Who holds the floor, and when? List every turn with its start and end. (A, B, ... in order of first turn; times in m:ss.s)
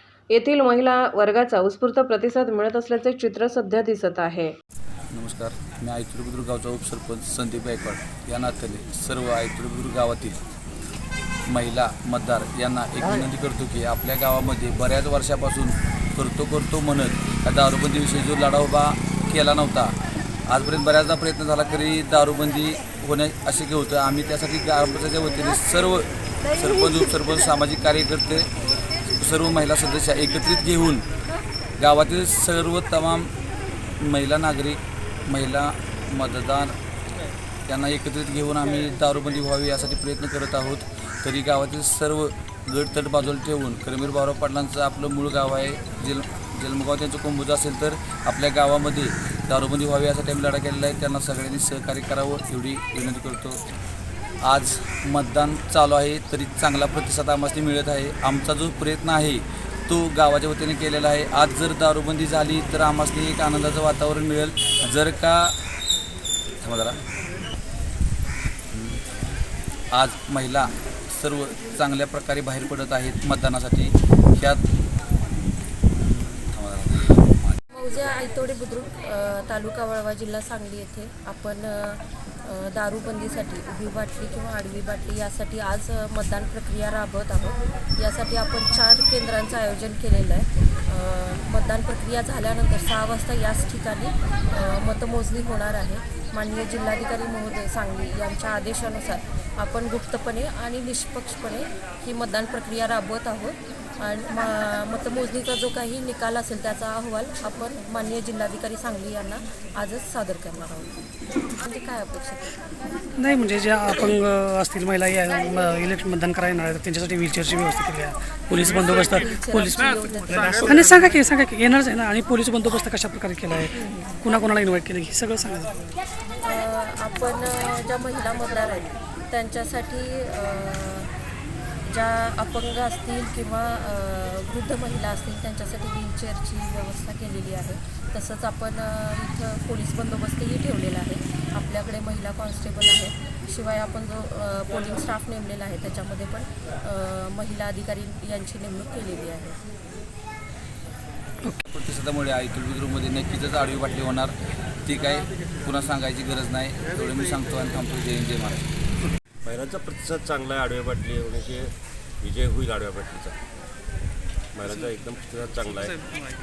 0:00.3-0:04.5 A
0:05.1-0:10.4 B
0:11.5-0:19.9 B
0:20.5-0:28.5 B
0:29.2-0:31.0 B
0:31.8-0:33.3 B
0:34.0-0:36.7 B
0:37.7-0:53.6 B
0:54.5-1:05.6 B
1:06.6-1:07.0 B
1:08.7-1:09.3 B
1:09.9-1:14.6 B
1:16.0-1:17.6 B
1:17.7-1:51.0 C
1:51.6-1:52.6 C
1:53.2-2:05.7 D
1:58.7-2:01.2 C
2:03.8-2:04.1 C
2:06.4-2:11.1 C
2:11.9-2:29.6 C
2:31.5-2:34.3 B
2:34.8-2:38.6 B
2:39.4-2:41.7 E
2:42.2-2:43.4 E
2:44.6-2:46.0 E